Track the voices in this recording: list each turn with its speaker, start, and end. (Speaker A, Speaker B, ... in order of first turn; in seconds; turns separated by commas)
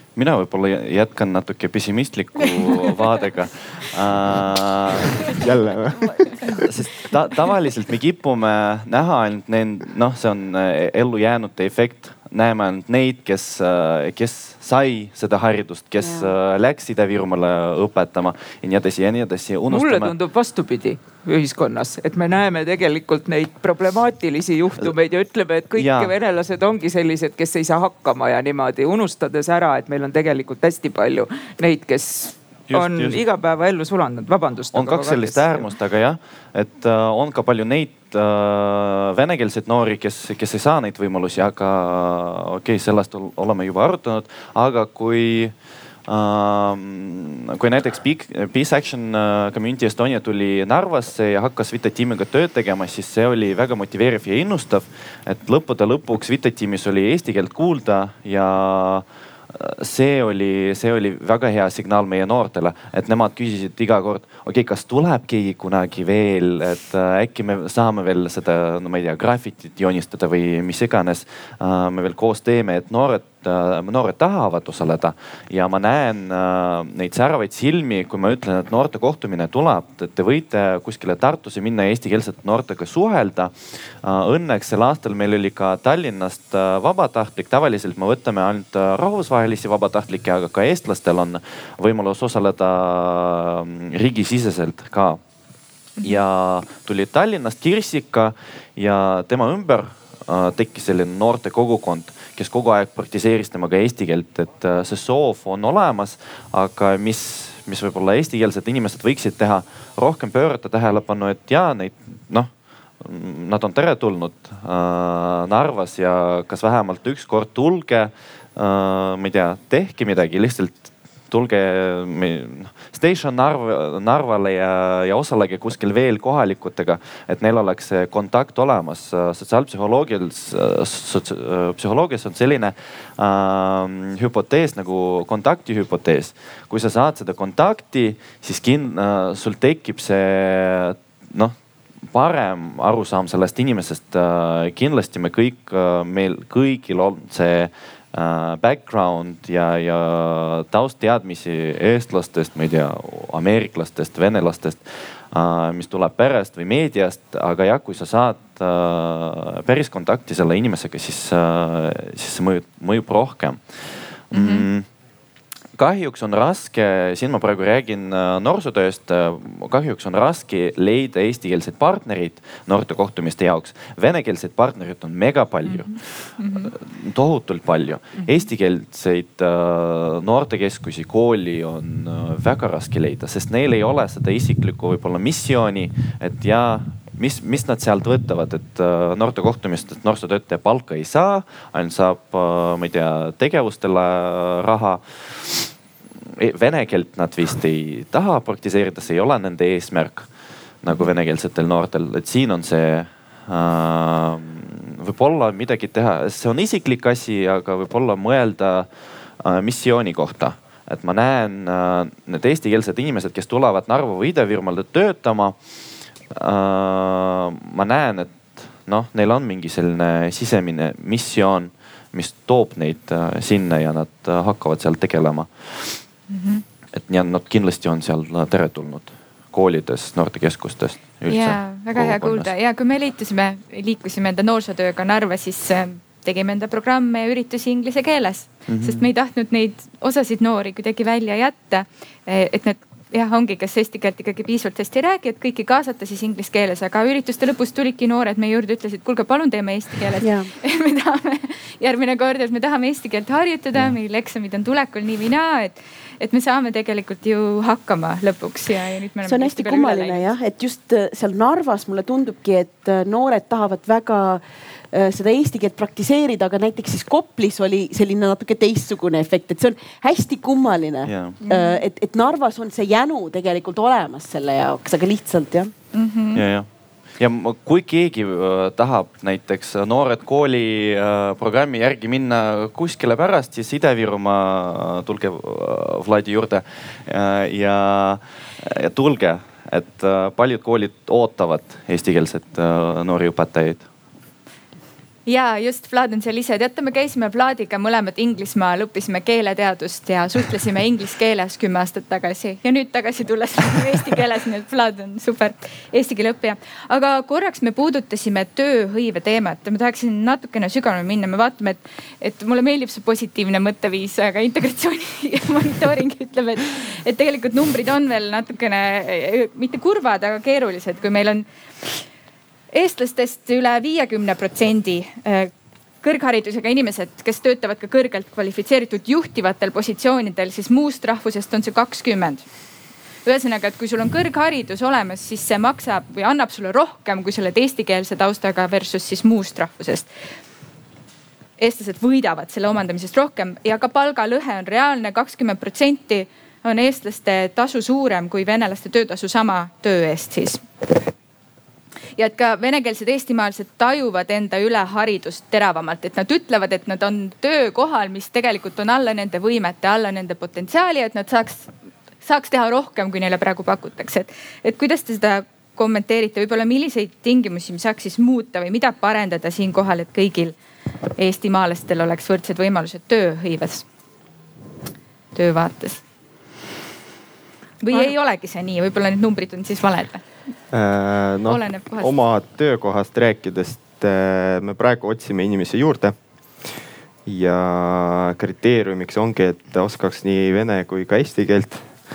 Speaker A: 0.1-5.3, Speaker B: 5.3-6.3, Speaker A: 6.6-20.1, Speaker C: 19.7-35.7, Speaker A: 25.8-26.1, Speaker A: 32.7-33.2, Speaker A: 34.7-45.5, Speaker A: 46.1-95.2, Speaker A: 96.0-112.5, Speaker A: 113.0-141.5, Speaker A: 142.1-163.6, Speaker A: 164.3-164.8, Speaker D: 164.3-164.7, Speaker A: 165.8-195.7, Speaker D: 175.7-176.7, Speaker A: 196.4-200.3, Speaker A: 200.8-208.9, Speaker A: 209.4-215.6, Speaker A: 216.3-226.0, Speaker D: 226.3-226.6, Speaker A: 226.9-232.5, Speaker D: 231.3-260.3, Speaker A: 238.7-239.0, Speaker E: 250.2-250.5, Speaker E: 259.2-264.4, Speaker E: 264.9-275.7, Speaker A: 271.0-271.4, Speaker D: 271.4-271.8, Speaker D: 275.9-276.4, Speaker A: 276.3-276.7, Speaker A: 277.2-293.9, Speaker D: 295.2-321.5, Speaker D: 322.7-325.5, Speaker D: 326.0-332.4, Speaker D: 333.2-340.1, Speaker D: 341.6-350.6, Speaker D: 352.1-361.7, Speaker D: 362.2-370.5, Speaker D: 371.2-373.9, Speaker D: 375.3-376.0, Speaker D: 377.8-380.2, Speaker B: 380.7-386.1, Speaker D: 381.5-382.2, Speaker B: 387.2-391.9